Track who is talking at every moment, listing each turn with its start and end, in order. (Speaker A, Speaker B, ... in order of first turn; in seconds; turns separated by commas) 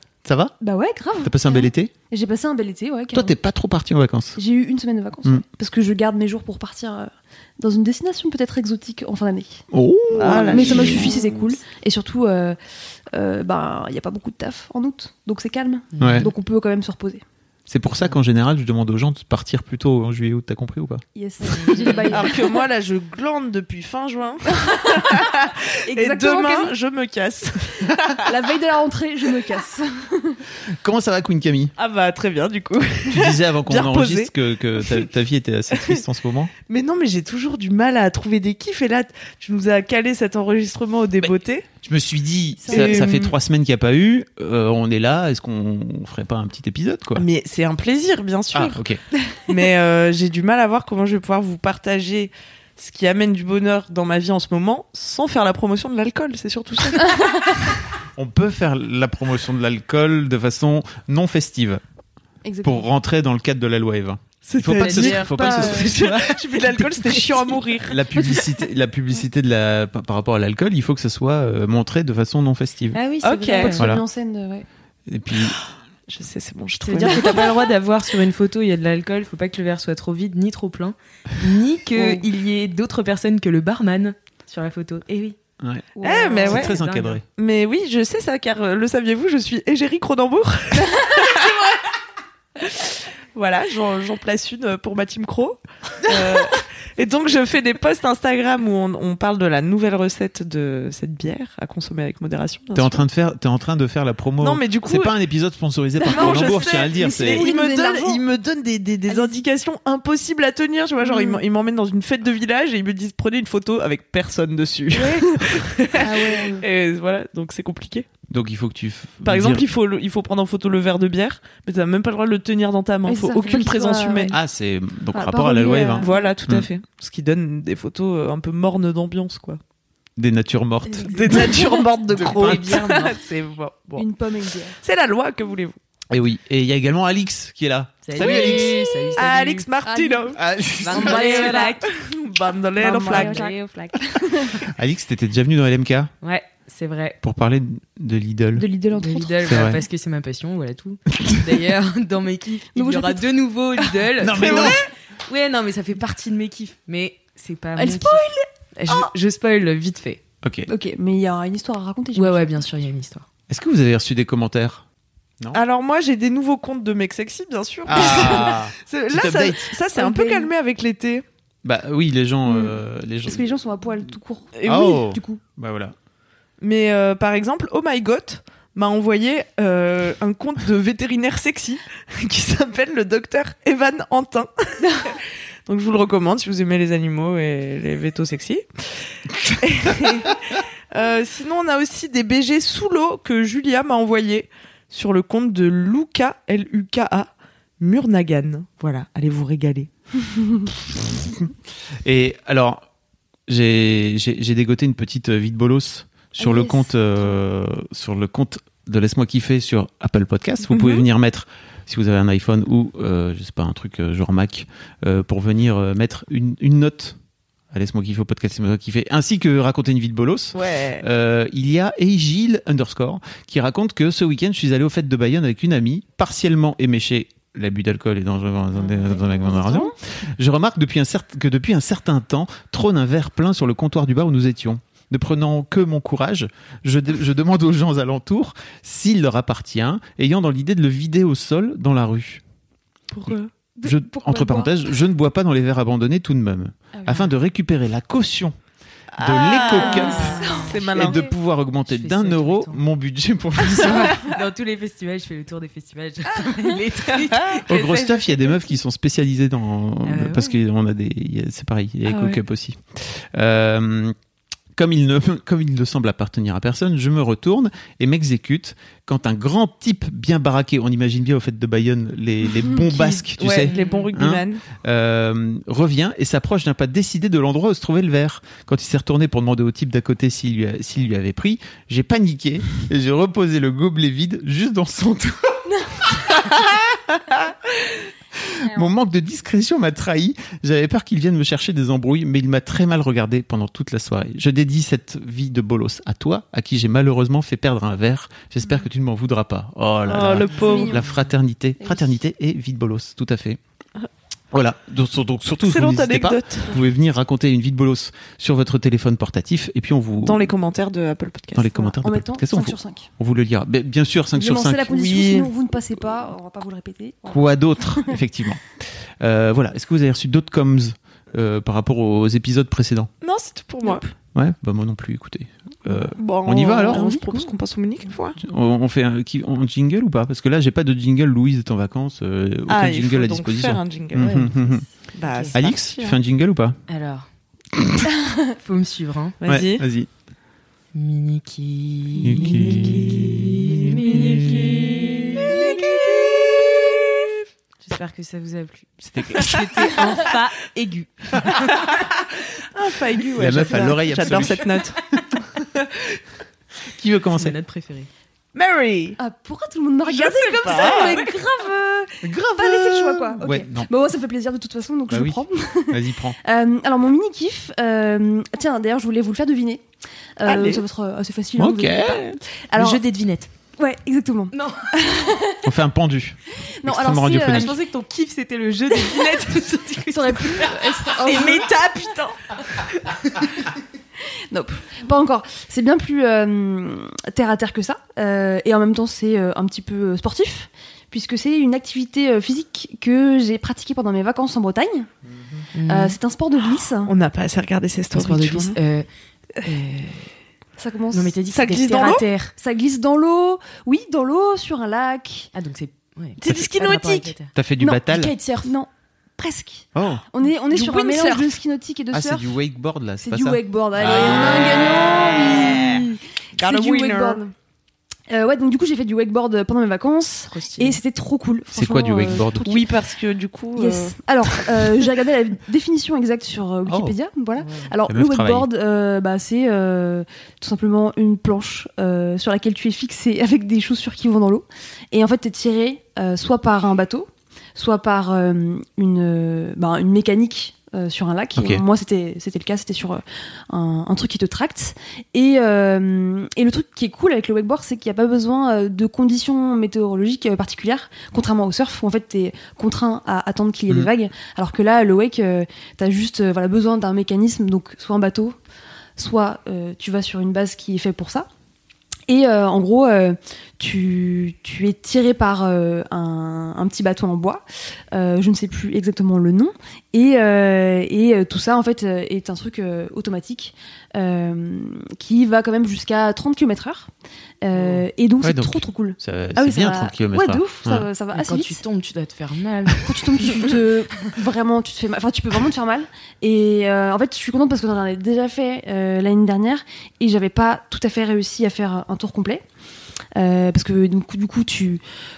Speaker A: 0.2-0.6, Speaker B: 0.6-3.4, Speaker A: 1.2-1.9, Speaker A: 3.1-4.4, Speaker B: 4.4-9.6, Speaker A: 9.7-11.1, Speaker C: 10.1-11.5, Speaker B: 10.3-12.6, Speaker B: 13.1-17.2, Speaker D: 15.9-16.3, Speaker A: 16.0-16.3, Speaker A: 17.7-21.0, Speaker B: 21.1-22.4, Speaker C: 21.7-28.3, Speaker D: 21.8-22.0, Speaker B: 24.6-25.3, Speaker B: 25.9-26.7, Speaker B: 28.2-30.4, Speaker A: 30.7-31.7, Speaker C: 31.8-35.1, Speaker A: 33.1-36.5, Speaker C: 35.7-36.0, Speaker C: 36.7-41.7, Speaker A: 41.2-47.2, Speaker B: 42.6-43.3, Speaker C: 42.7-43.2, Speaker C: 47.2-48.8, Speaker A: 48.5-49.0, Speaker C: 49.5-57.6, Speaker A: 58.2-61.8, Speaker B: 62.5-62.9, Speaker A: 62.6-66.1, Speaker C: 64.5-68.0, Speaker D: 64.7-67.5, Speaker B: 65.4-65.9, Speaker A: 67.9-73.0, Speaker B: 68.2-68.5, Speaker D: 72.9-73.8, Speaker C: 73.2-73.9, Speaker B: 73.6-74.7, Speaker A: 73.8-74.0, Speaker A: 75.1-75.6, Speaker C: 76.1-77.7, Speaker D: 76.8-85.4, Speaker C: 82.0-82.2, Speaker A: 85.6-85.9, Speaker B: 86.0-86.6, Speaker C: 86.0-86.8, Speaker A: 86.5-87.2, Speaker D: 86.5-87.2, Speaker C: 87.4-91.8, Speaker C: 92.6-103.0, Speaker A: 102.7-107.5, Speaker C: 104.4-105.1, Speaker B: 106.0-108.2, Speaker C: 106.1-118.1, Speaker B: 109.1-109.4, Speaker B: 111.0-111.4, Speaker B: 114.9-115.3, Speaker B: 116.0-116.7, Speaker A: 118.3-119.6, Speaker C: 119.2-124.3, Speaker B: 123.1-124.4, Speaker A: 124.3-126.7, Speaker B: 125.1-126.3, Speaker C: 125.9-129.6, Speaker A: 130.2-131.4, Speaker C: 131.0-135.8, Speaker A: 132.1-132.7, Speaker D: 132.3-133.2, Speaker B: 134.0-134.8, Speaker A: 136.1-139.0, Speaker D: 138.0-139.7, Speaker C: 138.2-138.6, Speaker C: 139.2-143.5, Speaker B: 139.8-140.4, Speaker A: 140.3-141.3, Speaker D: 140.8-141.9, Speaker B: 140.9-141.8, Speaker B: 142.8-144.7, Speaker D: 143.0-143.6, Speaker A: 144.6-146.1, Speaker D: 146.2-147.2, Speaker A: 147.2-148.7, Speaker B: 148.6-149.4, Speaker D: 148.9-160.2, Speaker A: 149.4-149.8, Speaker B: 152.8-153.3, Speaker A: 154.2-154.8, Speaker C: 154.4-154.7, Speaker B: 157.8-158.5, Speaker A: 160.4-160.7, Speaker B: 160.7-162.7, Speaker D: 162.2-163.3, Speaker A: 163.5-164.8, Speaker C: 165.5-171.2, Speaker A: 167.9-169.7, Speaker B: 169.9-170.5, Speaker A: 171.6-173.5, Speaker B: 172.5-175.4, Speaker C: 174.6-175.0, Speaker A: 174.6-175.9, Speaker C: 176.6-188.7, Speaker B: 184.8-185.1, Speaker C: 189.4-199.9, Speaker A: 200.9-201.5, Speaker A: 202.0-202.8, Speaker A: 203.5-217.2, Speaker B: 206.4-207.4, Speaker B: 210.8-211.0, Speaker A: 217.7-242.4, Speaker C: 220.6-221.0, Speaker B: 228.8-229.9, Speaker C: 243.1-243.5, Speaker B: 243.8-244.7, Speaker A: 243.8-248.6, Speaker B: 247.0-247.3, Speaker C: 249.1-251.3, Speaker A: 249.2-254.3, Speaker D: 249.8-250.8, Speaker B: 250.0-251.2, Speaker D: 251.8-252.8, Speaker B: 253.9-254.1, Speaker D: 254.2-258.4, Speaker C: 257.1-257.8, Speaker A: 257.7-264.1, Speaker D: 260.0-260.6, Speaker B: 262.1-262.4, Speaker A: 264.8-303.6, Speaker B: 272.9-273.2, Speaker D: 273.4-274.1, Speaker C: 273.6-274.6, Speaker C: 300.1-301.0, Speaker D: 300.5-301.3, Speaker B: 300.7-301.1, Speaker B: 301.8-302.1, Speaker A: 304.5-310.5, Speaker C: 305.6-306.8, Speaker C: 310.2-311.9, Speaker A: 311.5-314.9, Speaker B: 312.0-313.1, Speaker B: 314.4-318.2, Speaker C: 314.9-315.5, Speaker A: 317.3-323.1, Speaker C: 323.2-324.1, Speaker A: 324.4-327.1, Speaker C: 326.2-328.4, Speaker B: 326.9-327.5, Speaker A: 328.4-334.9, Speaker C: 332.7-334.5, Speaker D: 334.2-334.5, Speaker C: 335.1-336.2, Speaker D: 335.3-335.5, Speaker A: 335.5-336.8, Speaker D: 336.9-337.3, Speaker A: 337.8-338.1, Speaker D: 338.6-339.4, Speaker C: 339.4-339.9, Speaker A: 339.5-340.1, Speaker D: 340.9-345.8, Speaker A: 342.2-344.9, Speaker C: 345.6-346.6, Speaker D: 347.8-351.9, Speaker A: 349.0-350.0, Speaker C: 351.5-355.0, Speaker A: 353.4-354.9, Speaker A: 356.9-357.6, Speaker D: 357.4-358.1, Speaker C: 358.5-359.2, Speaker B: 359.2-369.9, Speaker C: 360.1-361.3, Speaker A: 362.2-363.9, Speaker A: 365.1-366.4, Speaker B: 370.4-373.0, Speaker C: 370.4-370.8, Speaker A: 371.6-372.4, Speaker D: 372.8-373.5, Speaker B: 373.8-375.6, Speaker D: 374.5-375.4, Speaker A: 375.6-377.8, Speaker B: 376.8-377.7, Speaker D: 377.5-383.5, Speaker B: 379.1-379.5, Speaker B: 380.1-381.7, Speaker B: 384.5-395.1, Speaker A: 395.3-395.6, Speaker D: 395.7-396.2, Speaker B: 395.9-397.1, Speaker C: 397.1-398.8, Speaker D: 398.1-400.3, Speaker B: 400.8-401.4, Speaker D: 401.1-402.5, Speaker C: 401.5-402.2, Speaker B: 402.6-405.5, Speaker D: 405.5-408.7, Speaker C: 406.4-407.3, Speaker A: 406.4-406.7, Speaker A: 407.6-408.3, Speaker B: 408.6-412.6, Speaker A: 409.9-410.2, Speaker C: 410.7-411.5, Speaker A: 412.1-414.9, Speaker B: 413.2-417.5, Speaker C: 416.6-417.4, Speaker B: 418.3-422.8, Speaker D: 420.5-421.0, Speaker A: 421.7-422.7, Speaker C: 422.6-424.2, Speaker B: 423.8-458.6, Speaker A: 426.9-427.2, Speaker D: 427.6-427.9, Speaker A: 428.1-428.7, Speaker A: 441.6-441.8, Speaker B: 459.2-461.5, Speaker B: 462.3-477.1, Speaker B: 477.6-481.8, Speaker A: 478.4-481.1, Speaker D: 481.3-483.6, Speaker B: 483.0-492.6, Speaker B: 493.4-495.0